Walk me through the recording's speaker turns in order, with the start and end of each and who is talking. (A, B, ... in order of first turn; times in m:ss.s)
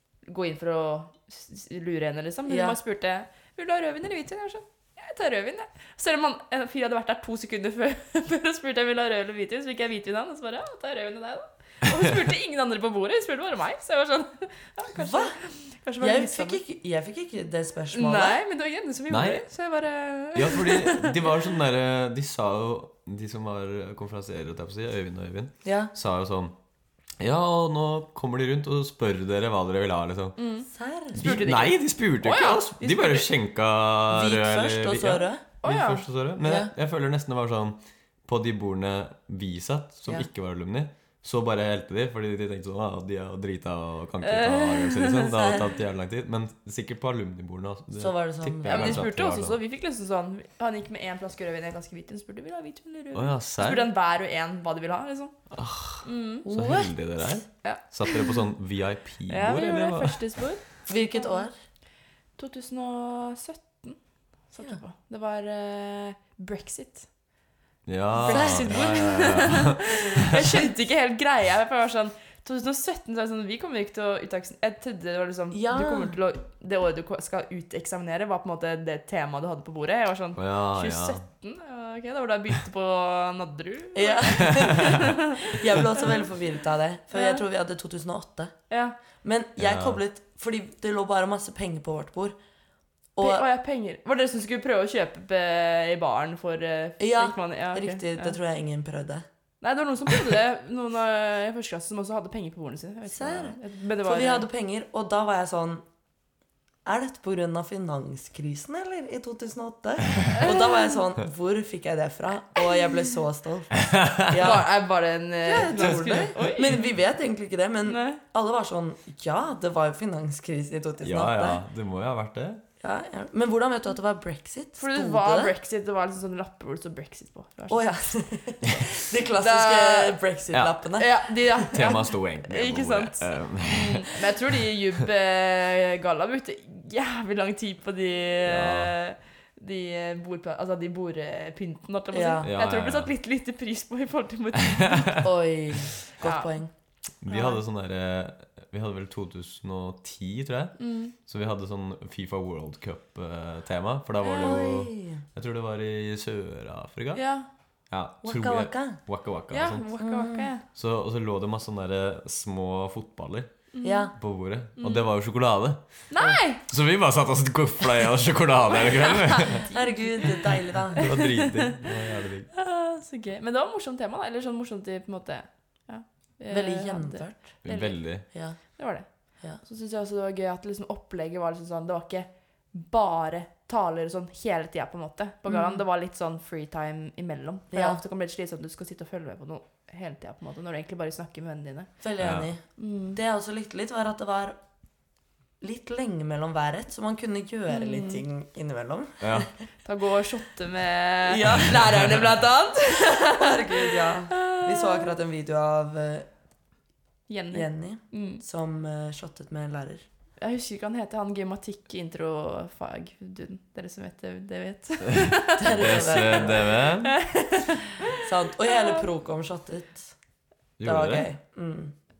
0:00.2-0:16.6 A
0:02.5-0:02.8 B
0:14.9-0:15.4 B
0:16.0-0:18.4 B
0:17.9-0:21.2 A
0:19.1-0:19.4 C
0:20.3-0:26.5 C
0:25.6-0:25.9 B
0:27.2-0:30.4 C
0:30.4-0:33.3 A
0:30.7-0:31.4 B
0:31.1-0:49.6 C
0:34.1-0:35.4 B
0:35.6-0:36.0 A
0:36.4-0:36.7 B
0:44.2-0:45.6 A
0:48.0-0:49.0 B
0:48.6-0:55.4 A
0:53.1-0:53.9 C
0:55.5-1:00.2 C
0:56.0-0:56.4 A
0:56.4-0:56.9 B
0:57.6-0:58.4 A
0:59.3-1:01.4 A
1:00.9-1:01.5 B
1:02.4-1:07.1 A
1:07.8-1:10.6 C
1:08.2-1:25.2 A
1:08.3-1:08.8 B
1:15.5-1:16.1 B
1:20.4-1:21.2 C
1:23.9-1:28.5 B
1:27.1-1:27.4 A
1:28.7-1:29.0 A
1:29.2-1:32.4 B
1:29.6-1:30.0 C
1:33.2-1:33.4 B
1:33.2-1:38.4 A
1:37.0-1:39.2 B
1:39.6-1:44.4 A
1:43.1-1:45.8 B
1:46.8-1:54.7 B
1:50.4-1:50.7 A
1:53.8-1:54.3 C
1:54.3-1:56.9 A
1:55.4-2:01.6 B
1:57.8-1:58.2 A
2:01.0-2:02.6 C
2:02.8-2:05.5 B
2:04.8-2:07.9 A
2:07.7-2:11.7 B
2:09.3-2:10.2 A
2:10.9-2:25.2 A
2:11.7-2:14.2 C
2:18.4-2:18.9 C
2:22.1-2:22.5 B
2:22.4-2:23.1 C
2:24.7-2:25.1 C
2:25.2-2:26.7 B
2:26.2-2:26.5 A
2:27.2-2:37.2 C
2:27.3-2:27.6 A
2:30.8-2:31.1 A
2:34.2-2:34.5 A
2:34.4-2:35.2 B
2:37.1-2:37.5 A
2:37.9-2:39.9 C
2:38.2-2:39.0 B
2:39.5-2:40.6 A
2:40.0-2:40.5 B
2:40.7-2:46.0 C
2:43.7-2:44.1 A
2:43.8-2:44.1 B
2:44.8-2:45.1 A
2:46.1-2:46.6 A
2:46.7-2:49.6 C
2:48.8-2:50.4 A
2:49.7-2:51.1 B
2:50.9-2:52.5 C
2:51.0-2:51.8 A
2:52.5-3:12.0 A
2:56.5-2:57.6 B
2:57.6-2:58.2 C
2:58.3-2:59.6 B
3:05.5-3:05.8 B
3:07.7-3:08.0 B
3:12.0-3:14.6 B
3:12.2-3:12.5 C
3:12.8-3:13.2 A
3:15.6-3:19.5 B
3:17.7-3:18.2 A
3:19.2-3:19.5 C
3:19.8-3:25.1 A
3:21.2-3:22.2 B
3:23.0-3:26.3 B
3:27.3-3:28.4 A
3:27.5-3:30.0 B
3:30.4-3:38.0 A
3:35.5-3:36.7 B
3:35.7-3:37.2 C
3:38.1-3:40.1 B
3:38.6-3:39.0 A
3:40.8-3:41.3 C
3:40.8-3:41.9 B